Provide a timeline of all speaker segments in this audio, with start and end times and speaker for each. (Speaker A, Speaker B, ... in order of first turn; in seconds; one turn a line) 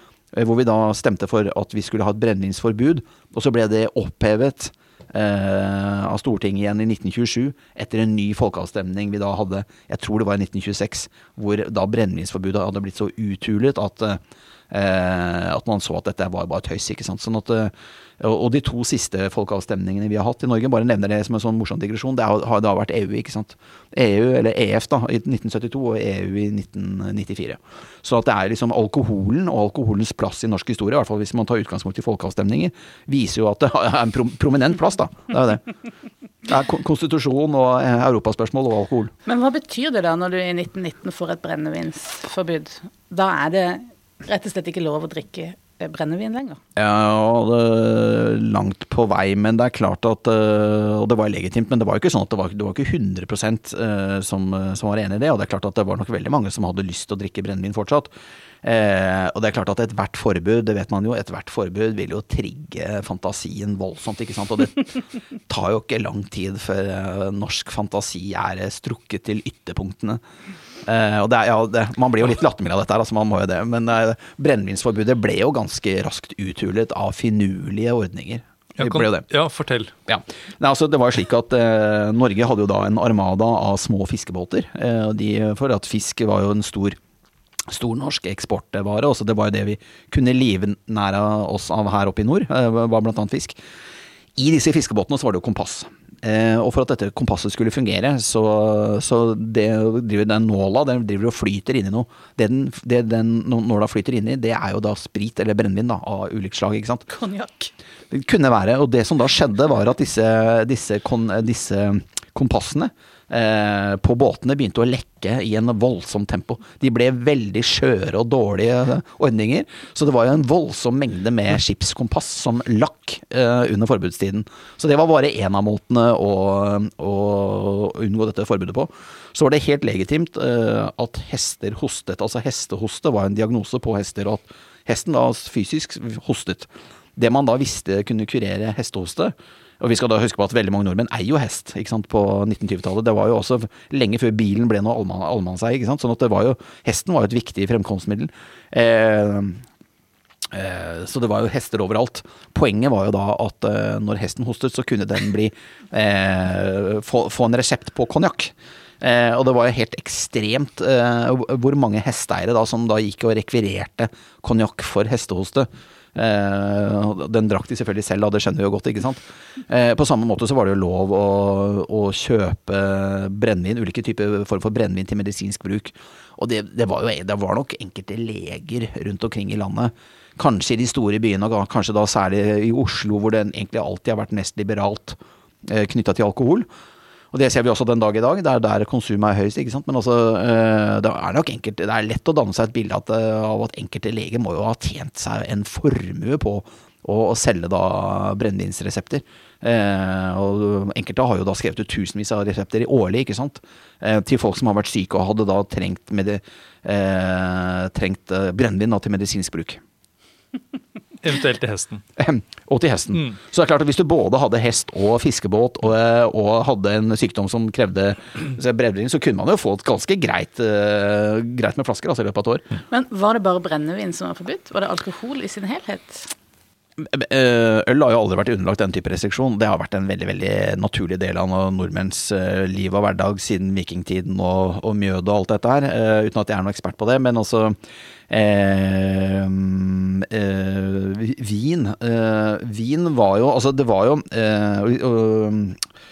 Speaker A: 0.3-35.7
Speaker A: 36.5-39.1
Speaker B: 39.3-46.6
Speaker A: 46.8-58.1
Speaker A: 58.6-70.2
Speaker A: 70.8-79.2
Speaker C: 78.8-79.9
Speaker A: 80.1-87.0
Speaker A: 87.7-93.6
Speaker A: 94.4-107.1
Speaker B: 107.1-107.7
Speaker A: 108.1-149.6
Speaker A: 150.5-186.7
Speaker A: 187.3-209.8
Speaker C: 211.2-212.0
Speaker A: 212.2-222.7
Speaker B: 222.9-226.3
Speaker A: 227.0-237.8
Speaker A: 238.3-245.8